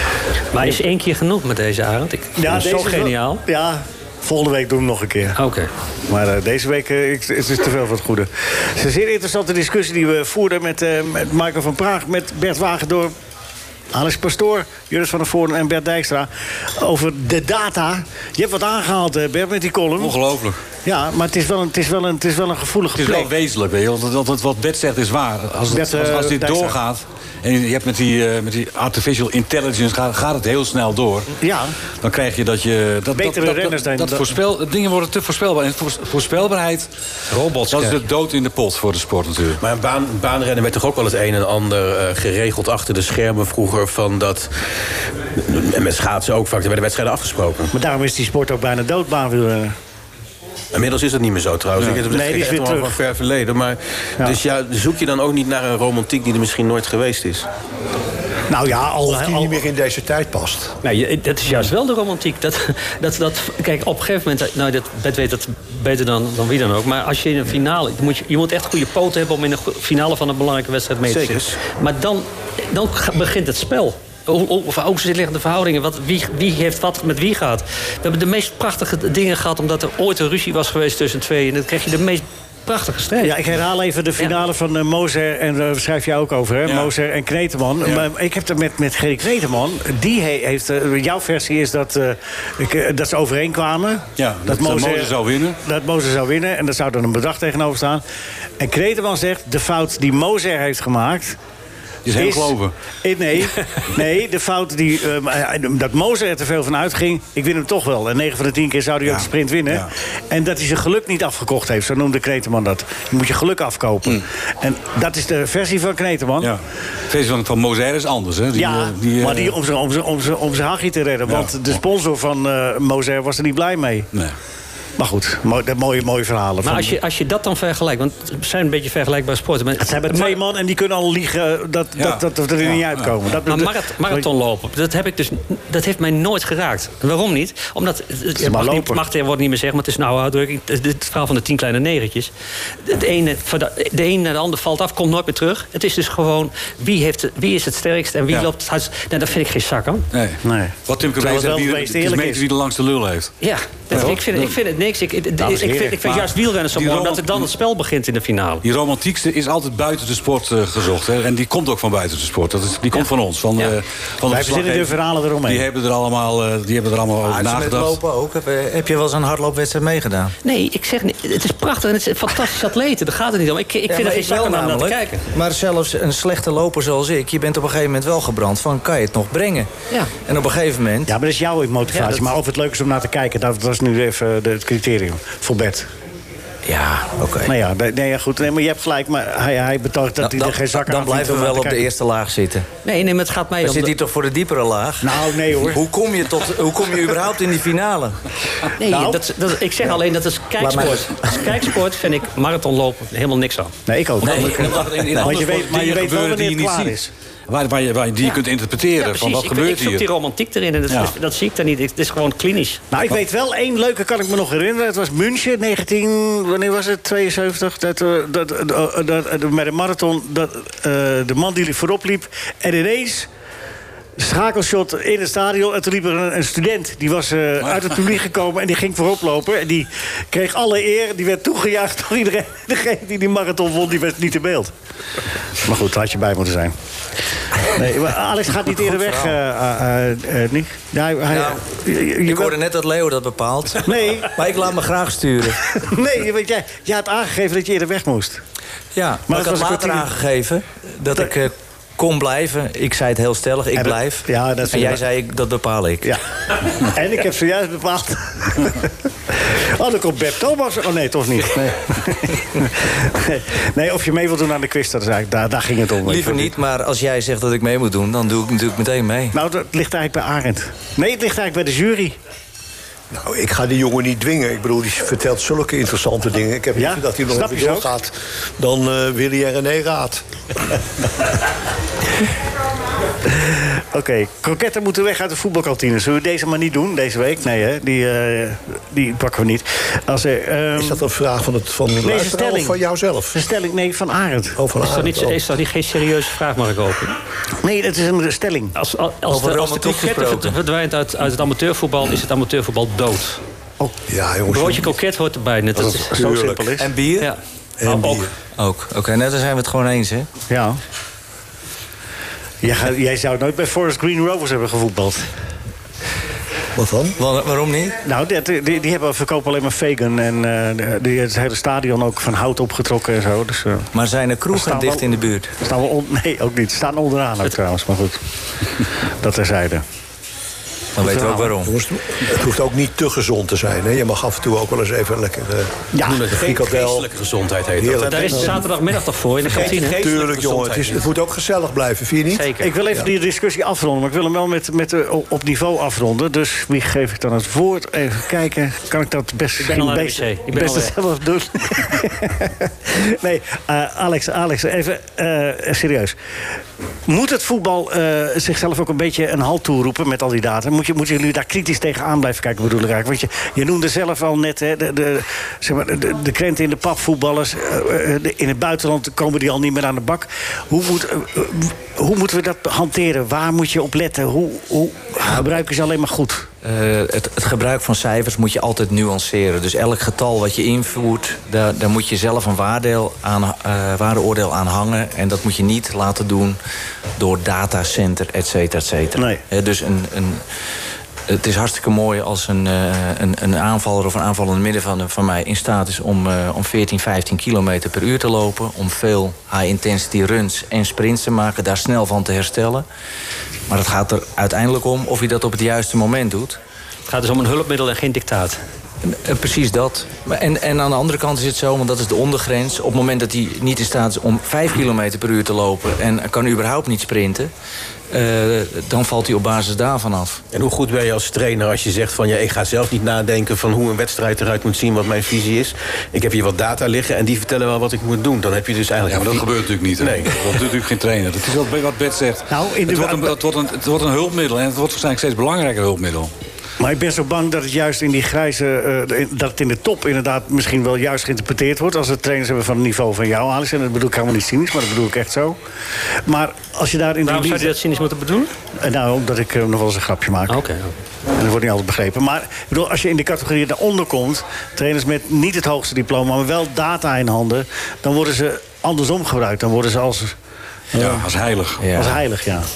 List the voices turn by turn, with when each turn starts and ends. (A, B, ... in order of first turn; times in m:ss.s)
0:00.5-0:03.4 A
0:02.4-0:05.4 B
0:05.4-0:05.7 A
0:06.1-0:13.1 B
0:13.9-0:20.2 B
0:20.0-0:20.6 C
0:20.8-0:23.3 B
0:22.9-0:31.3 C
0:25.7-0:26.8 B
0:31.4-0:31.7 B
0:32.0-0:36.9 C
0:33.1-0:34.4 B
0:37.3-0:38.0 A
0:37.7-0:39.6 C
0:39.6-0:44.7 D
0:45.3-0:47.7 D
0:47.7-0:49.8 B
0:50.7-0:57.5 D
0:52.1-0:53.0 B
0:58.5-0:59.6 B
0:59.0-1:00.8 E
1:00.8-1:23.4 A
1:11.0-1:11.6 D
1:23.2-1:38.0 B
1:26.6-1:26.9 C
1:34.2-1:35.6 C
1:38.6-1:41.4 B
1:42.0-1:42.7 C
1:42.1-1:56.5 B
1:49.0-1:49.9 C
1:56.4-1:59.6 C
1:58.5-2:04.1 B
2:01.3-2:01.6 C
2:05.0-2:07.0 B
2:06.6-2:10.4 A
2:09.8-2:14.2 B
2:12.0-2:13.2 C
2:13.5-2:22.3 A
2:18.4-2:19.0 B
2:22.8-2:30.0 A
2:30.1-2:33.3 C
2:30.4-2:32.5 B
2:33.4-2:38.6 A
2:33.9-2:34.6 C
2:35.4-2:36.0 B
2:36.0-2:37.5 C
2:38.6-2:48.0 C
2:44.3-2:45.7 B
2:47.2-2:50.3 F
2:50.4-2:55.2 A
2:53.9-2:59.7 F
3:00.2-3:01.1 F
3:01.1-3:05.9 B
3:01.9-3:02.2 A
3:06.6-3:07.5 F
3:07.4-3:11.8 B
3:10.2-3:12.6 F
3:12.8-3:13.9 A
3:13.6-3:18.2 F
3:15.0-3:15.8 B
3:18.8-3:23.8 A
3:18.8-3:19.2 B
3:20.6-3:21.3 F
3:23.9-3:27.1 B
3:24.2-3:30.0 C
3:29.0-3:32.8 A
3:30.9-3:31.1 C
3:32.9-3:43.3 B
3:44.2-3:54.7 B
3:55.6-3:56.7 B
3:57.7-4:02.5 B
3:58.8-3:59.3 F
4:01.3-4:01.6 F
4:02.2-4:05.6 F
4:03.8-4:04.3 B
4:05.8-4:08.4 B
4:08.9-4:16.1 F
4:09.3-4:10.1 B
4:13.8-4:15.0 B
4:16.8-4:18.9 B
4:19.4-4:26.5 B
4:26.0-4:29.3 F
4:29.3-4:32.2 B
4:33.1-4:40.2 E
4:36.8-4:37.9 B
4:43.3-4:51.0 B
4:50.8-4:53.4 E
4:52.0-4:52.8 B
4:53.3-4:54.6 B
4:54.6-4:55.4 E
4:54.8-4:57.2 A
4:57.6-4:58.7 B
4:58.8-5:03.4 A
4:59.3-5:00.6 F
5:04.1-5:05.0 E
5:04.5-5:06.1 A
5:05.8-5:06.9 B
5:05.9-5:06.9 E
5:06.8-5:07.3 F
5:07.2-5:08.2 A
5:07.8-5:08.3 E
5:08.6-5:10.3 F
5:10.5-5:10.8 B
5:12.6-5:15.3 B
5:16.7-5:17.2 E
5:17.2-5:18.0 F
5:18.0-5:23.9 B
5:23.9-5:25.5 F
5:24.5-5:25.1 B
5:25.6-5:28.2 B
5:29.2-5:29.8 B
5:31.0-5:31.7 F
5:31.0-5:31.5 B
5:31.6-5:37.1 E
5:35.9-5:36.2 B
5:36.0-5:38.6 D
5:37.8-5:38.7 E
5:38.0-5:40.0 A
5:39.4-5:41.0 D
5:39.5-5:43.1 E
5:42.3-5:42.7 A
5:42.6-5:56.2 B
5:49.6-5:50.9 A
5:57.1-6:16.5 B
6:16.6-6:26.6 F
6:27.2-6:30.4 F
6:29.2-6:29.4 B
6:31.3-6:42.8 F
6:43.7-6:46.6 F
6:47.1-6:48.6 A
6:49.0-6:57.5 F
6:58.1-7:00.4 F
7:00.5-7:10.6 D
7:09.1-7:16.3 C
7:12.5-7:13.4 B
7:16.8-7:25.6 B
7:26.2-7:27.7 B
7:27.2-7:28.5 A
7:28.8-7:30.6 B
7:30.5-7:30.9 A
7:31.3-7:40.4 B
7:40.9-7:41.3 B
7:41.0-7:41.8 C
7:41.8-7:42.2 F
7:41.9-7:42.7 B